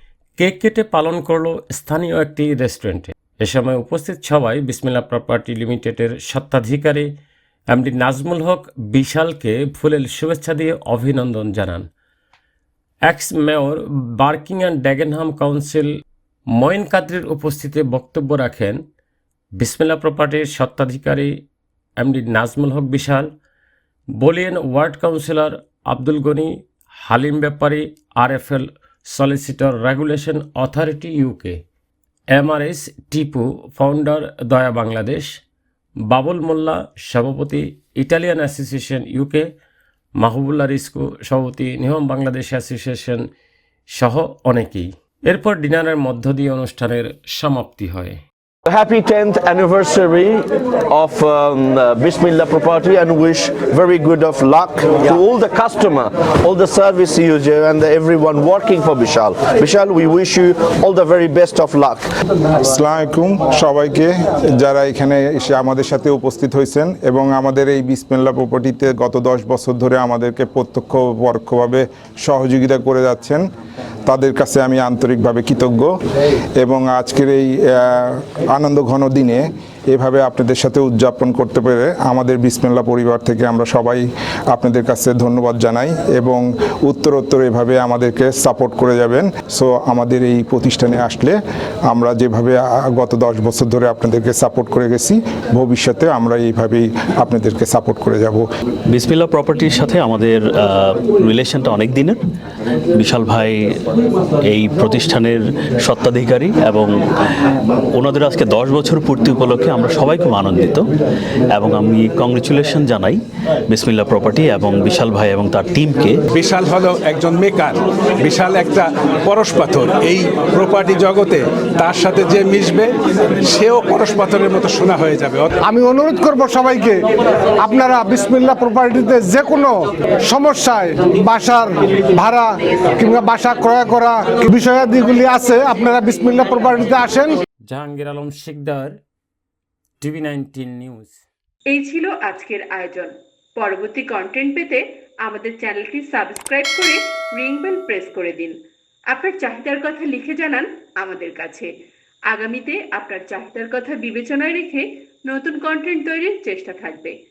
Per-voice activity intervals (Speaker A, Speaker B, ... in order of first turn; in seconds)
Speaker A: 0.4-7.1, 7.7-11.9, 13.1-15.9, 16.5-18.8, 19.6-21.4, 22.0-23.3, 24.2-31.6, 32.3-35.3, 36.1-39.5, 40.2-43.2, 44.0-48.2, 137.7-139.0, 140.0-141.2
Speaker B: 48.7-62.1
Speaker C: 62.6-73.4, 74.1-75.9, 76.6-91.4, 91.9-98.5
Speaker D: 98.9-102.2, 102.9-103.8, 104.4-110.9, 111.5-116.2
Speaker E: 116.4-122.9, 123.5-125.5
Speaker F: 125.6-127.1, 127.6-137.4
Speaker G: 141.7-148.6, 149.1-151.7, 152.3-157.1